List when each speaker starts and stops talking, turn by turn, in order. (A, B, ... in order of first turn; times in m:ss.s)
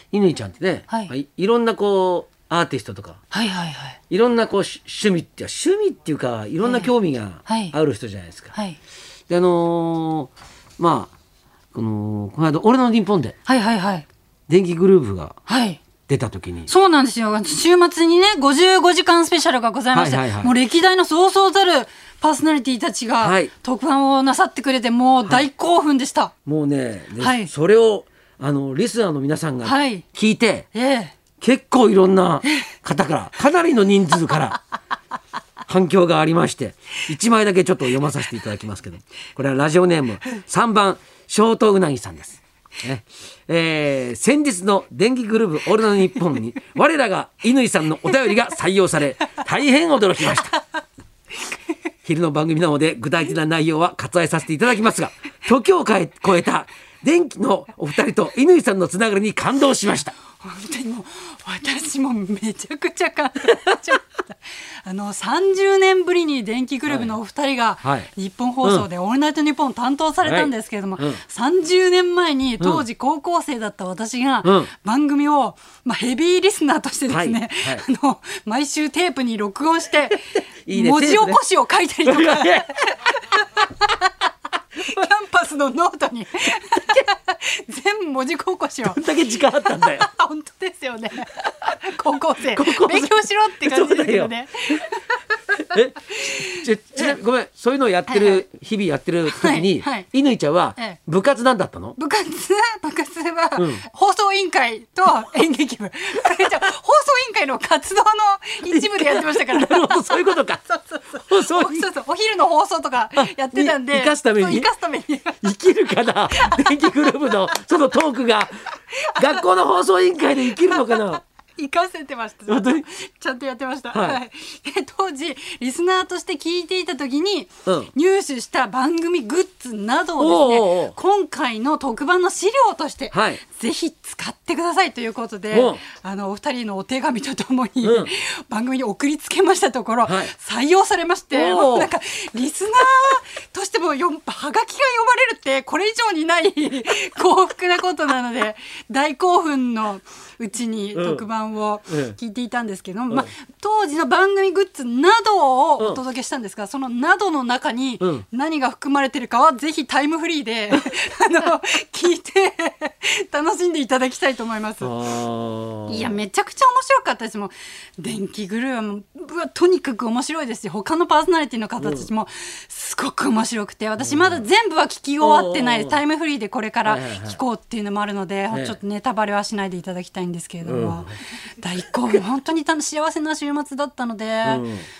0:00.1-0:03.2 A
0:03.3-0:04.0 B
0:04.1-0:08.5 A
0:06.6-0:06.9 B
0:07.4-0:07.7 B
0:09.3-0:11.1 A
0:11.7-0:13.3 A
0:13.4-0:14.0 B
0:14.5-0:15.4 A
0:15.5-0:15.8 B
0:16.1-0:16.7 A
0:16.7-0:26.3 B
0:19.9-0:20.5 A
0:23.2-0:23.5 A
0:26.4-0:30.6 A
0:27.2-0:27.5 B
0:29.6-0:30.0 B
0:30.7-0:31.1 B
0:31.4-0:34.6 A
0:32.4-0:32.7 B
0:35.7-0:50.5 A
0:52.0-1:00.1 A
1:00.4-1:24.1 B
1:06.9-1:07.1 A
1:07.8-1:08.1 A
1:10.2-1:11.2 A
1:12.6-1:12.8 A
1:14.4-1:14.7 A
1:17.1-1:17.8 A
1:20.6-1:21.4 A
1:22.0-1:22.7 A
1:24.8-1:29.0 B
1:28.8-1:30.1 A
1:29.7-1:35.6 B
1:32.4-1:34.8 A
1:35.6-1:42.0 A
1:36.1-1:37.1 B
1:38.1-1:38.4 B
1:39.3-1:40.1 B
1:42.0-1:55.5 B
1:43.6-1:43.8 A
1:48.6-1:50.6 A
1:51.2-1:51.9 A
1:53.2-1:54.7 A
1:55.4-1:58.5 A
1:56.3-1:57.5 B
1:58.9-1:59.4 B
1:59.1-2:01.2 A
2:00.4-2:44.9 B
2:02.5-2:02.8 A
2:03.9-2:04.2 A
2:07.6-2:07.9 A
2:10.2-2:10.9 A
2:13.1-2:13.4 A
2:15.5-2:15.8 A
2:17.8-2:18.1 A
2:20.0-2:20.3 A
2:21.3-2:21.9 A
2:30.9-2:31.2 A
2:31.9-2:32.2 A
2:44.8-2:46.2 A
2:45.9-3:04.6 B
2:51.8-2:52.1 A
2:54.0-2:54.5 A
2:55.2-2:56.0 A
2:56.8-2:57.4 A
2:58.5-2:58.8 A
3:00.6-3:01.1 A
3:04.4-3:04.8 A